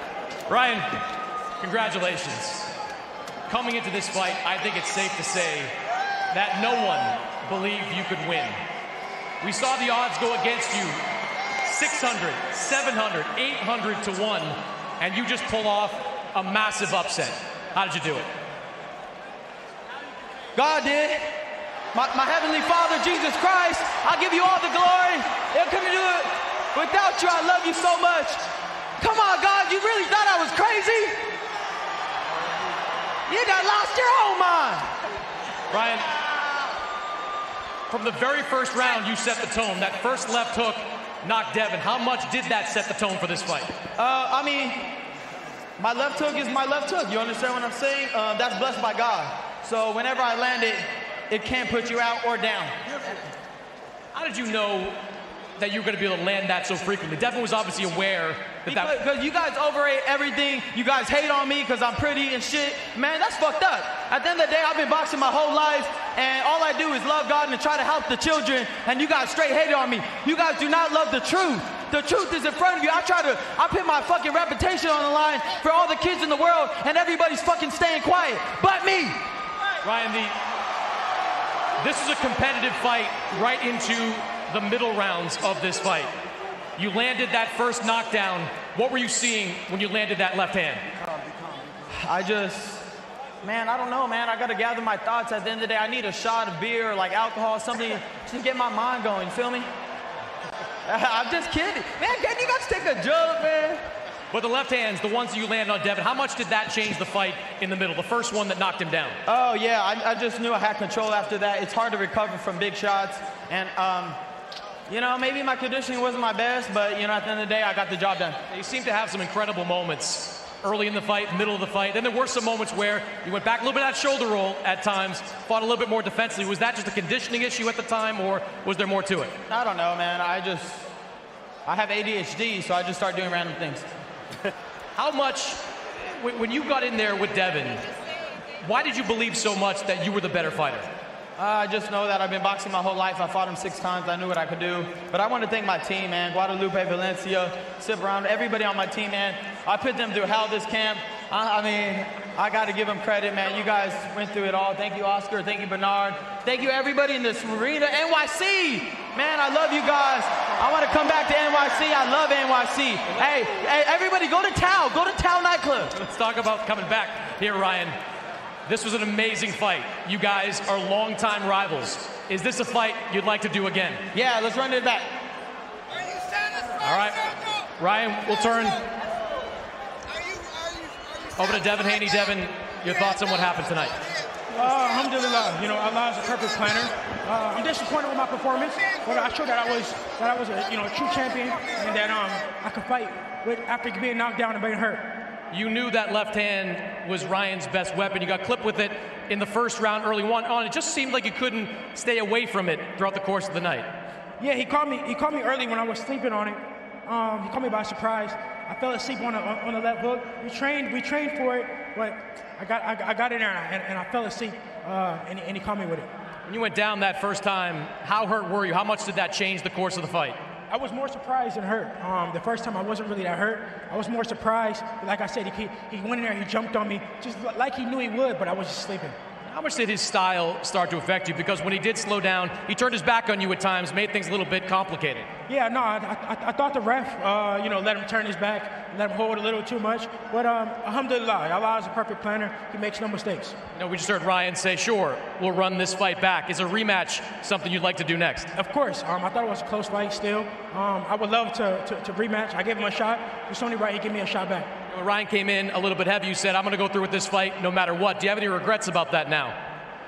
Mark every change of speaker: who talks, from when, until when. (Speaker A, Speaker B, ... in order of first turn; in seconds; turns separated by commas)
Speaker A: 0.5-0.9, Speaker A: 1.6-2.7, Speaker A: 3.5-5.7, Speaker A: 6.3-8.6, Speaker A: 9.4-11.0, Speaker A: 11.6-18.3, Speaker B: 20.6-21.2, Speaker B: 21.9-28.4, Speaker B: 29.0-31.2, Speaker B: 33.3-34.9, Speaker A: 35.7-36.1, Speaker A: 37.9-43.7, Speaker B: 44.0-44.8, Speaker B: 45.8-52.7, Speaker A: 54.1-55.0, Speaker A: 55.6-58.9, Speaker B: 58.7-79.2, Speaker A: 79.8-80.3, Speaker A: 81.8-86.1, Speaker A: 86.8-90.8, Speaker B: 91.9-92.8, Speaker B: 93.4-99.7, Speaker B: 100.9-103.8, Speaker A: 104.3-109.2, Speaker B: 109.2-114.2, Speaker B: 114.9-118.4, Speaker A: 118.5-129.3, Speaker B: 129.5-130.9, Speaker B: 131.7-133.8, Speaker A: 134.9-137.8, Speaker A: 138.6-140.9, Speaker B: 141.4-165.9, Speaker A: 165.9-168.0, Speaker A: 168.7-174.0, Speaker B: 174.1-175.1, Speaker A: 176.8-178.8, Speaker A: 181.4-184.0, Speaker C: 184.5-195.1, Speaker A: 195.5-203.9, Speaker C: 204.4-216.1, Speaker A: 216.5-220.4, Speaker C: 220.7-229.2, Speaker A: 229.5-235.3, Speaker C: 235.5-243.6, Speaker A: 243.8-248.5, Speaker C: 248.6-254.7, Speaker A: 254.9-259.6